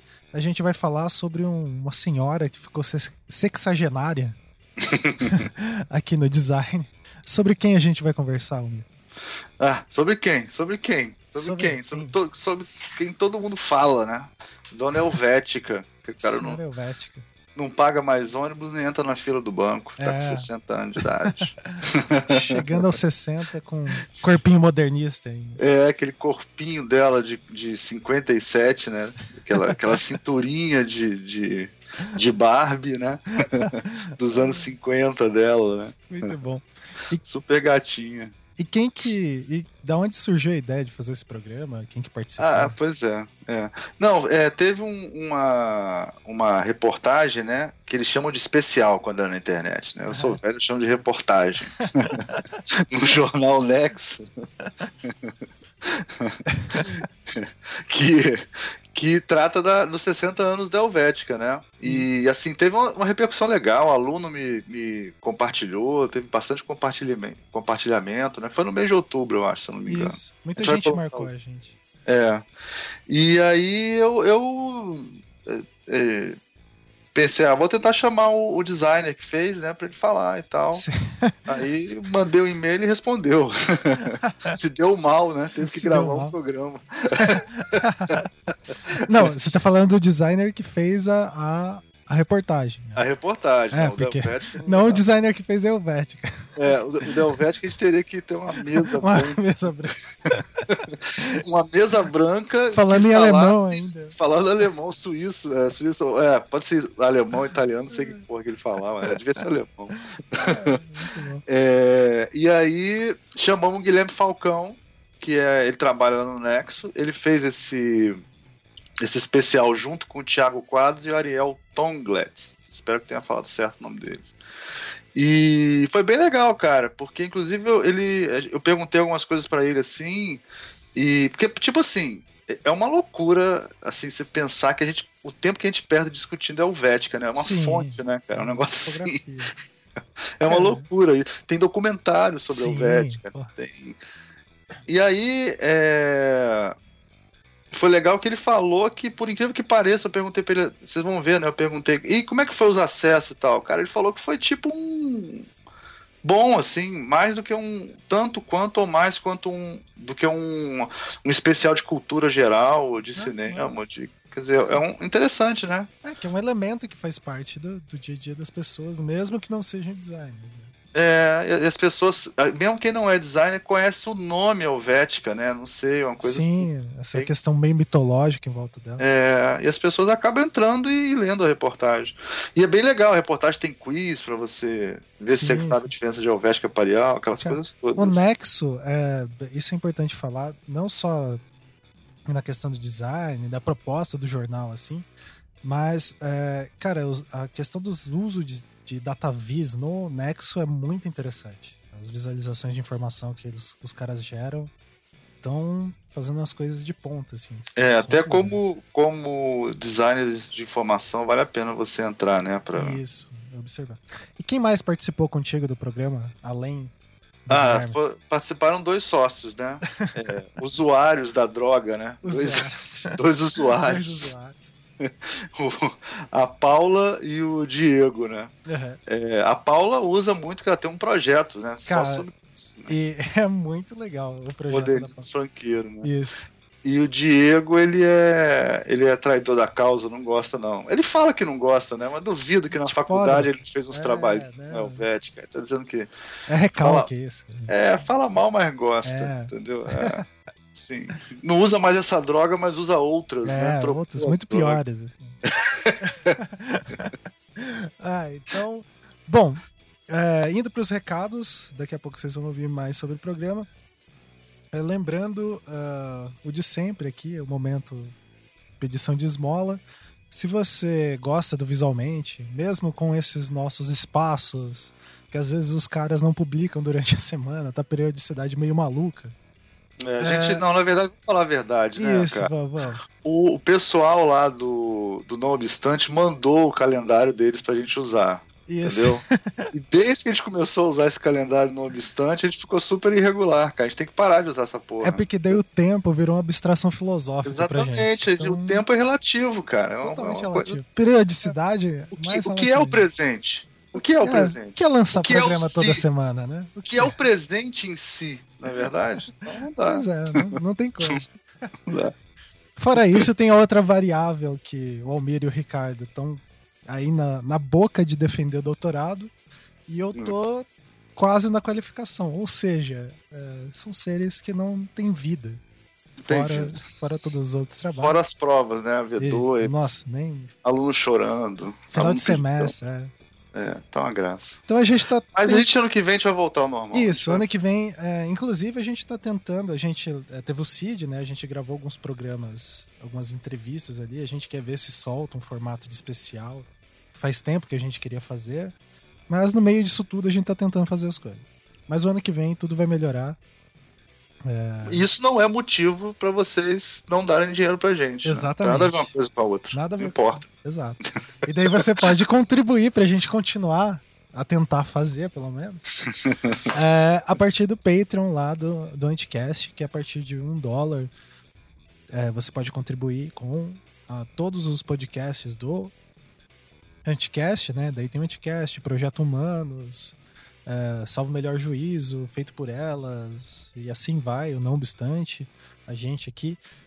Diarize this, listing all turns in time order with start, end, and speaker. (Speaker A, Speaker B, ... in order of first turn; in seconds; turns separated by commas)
Speaker A: 0.3-4.4, Speaker B: 4.8-5.5, Speaker A: 5.2-8.8, Speaker B: 9.6-16.6, Speaker A: 11.4-12.2, Speaker A: 16.2-17.2, Speaker B: 17.5-23.0, Speaker A: 20.0-20.5, Speaker A: 21.2-25.6, Speaker B: 25.6-36.3, Speaker A: 29.5-30.0, Speaker A: 33.5-34.7, Speaker A: 36.1-37.2, Speaker B: 37.2-38.3, Speaker A: 38.6-42.8, Speaker B: 42.4-52.2, Speaker A: 50.1-50.4, Speaker A: 51.8-52.4, Speaker B: 52.7-54.3, Speaker B: 55.0-71.3, Speaker A: 56.5-57.0, Speaker A: 69.8-71.7, Speaker B: 72.0-72.4, Speaker B: 73.1-76.4, Speaker B: 77.1-80.8, Speaker A: 80.7-81.5, Speaker B: 81.5-88.1, Speaker A: 84.0-84.6, Speaker A: 85.6-86.3, Speaker A: 87.2-88.3, Speaker B: 88.9-89.3, Speaker A: 89.0-93.0, Speaker B: 93.0-95.0, Speaker A: 93.7-97.1, Speaker B: 96.5-99.4, Speaker A: 98.8-101.3, Speaker B: 100.9-110.8, Speaker A: 102.7-104.2, Speaker A: 107.9-108.2, Speaker A: 109.9-111.4, Speaker B: 111.5-118.2, Speaker B: 119.0-124.3, Speaker B: 125.1-139.2, Speaker A: 137.3-139.5, Speaker B: 140.4-144.0, Speaker A: 140.5-140.9, Speaker A: 142.5-143.5, Speaker B: 144.8-146.7, Speaker B: 147.7-155.5, Speaker B: 156.2-165.9, Speaker A: 163.1-163.7, Speaker A: 166.0-170.7, Speaker B: 170.9-177.3, Speaker A: 176.2-179.0, Speaker B: 179.0-188.2, Speaker A: 185.3-185.9, Speaker A: 187.4-191.4, Speaker A: 192.3-195.1, Speaker A: 195.6-204.7, Speaker A: 205.4-208.7, Speaker B: 207.8-213.0, Speaker A: 212.7-216.9, Speaker A: 217.5-218.0, Speaker B: 217.5-224.3, Speaker A: 222.2-224.7, Speaker B: 225.0-228.5, Speaker A: 228.7-229.0, Speaker B: 229.1-232.9, Speaker A: 231.9-232.3, Speaker A: 232.9-235.3, Speaker B: 234.7-236.1, Speaker A: 236.0-236.5, Speaker B: 236.8-246.1, Speaker A: 242.7-245.1, Speaker A: 246.5-247.8, Speaker B: 246.8-247.1, Speaker B: 247.7-254.8, Speaker A: 249.0-250.2, Speaker A: 253.4-255.4, Speaker B: 255.4-256.3, Speaker A: 256.0-263.7, Speaker A: 264.7-268.1, Speaker A: 268.8-279.3, Speaker B: 280.0-282.5, Speaker A: 280.2-280.6, Speaker A: 281.9-283.0, Speaker B: 283.0-295.6, Speaker A: 288.7-289.7, Speaker A: 295.0-298.8, Speaker B: 297.4-300.8, Speaker A: 300.0-303.1, Speaker B: 302.1-306.0, Speaker A: 304.0-307.1, Speaker B: 306.8-310.5, Speaker A: 309.8-311.7, Speaker B: 311.9-312.1, Speaker A: 312.8-319.3, Speaker B: 312.9-313.2, Speaker A: 319.9-325.6, Speaker B: 326.2-326.8, Speaker A: 326.2-328.2, Speaker B: 328.0-329.9, Speaker A: 329.2-330.5, Speaker B: 330.6-332.7, Speaker A: 331.9-333.1, Speaker B: 333.5-334.6, Speaker A: 334.7-335.7, Speaker B: 335.3-337.4, Speaker A: 336.9-348.7, Speaker A: 349.3-353.4, Speaker A: 354.4-355.1, Speaker B: 354.8-360.5, Speaker A: 358.2-359.1, Speaker A: 359.7-365.9, Speaker B: 361.4-361.8, Speaker B: 366.2-366.6, Speaker A: 366.7-371.1, Speaker A: 372.1-375.9, Speaker A: 377.0-386.6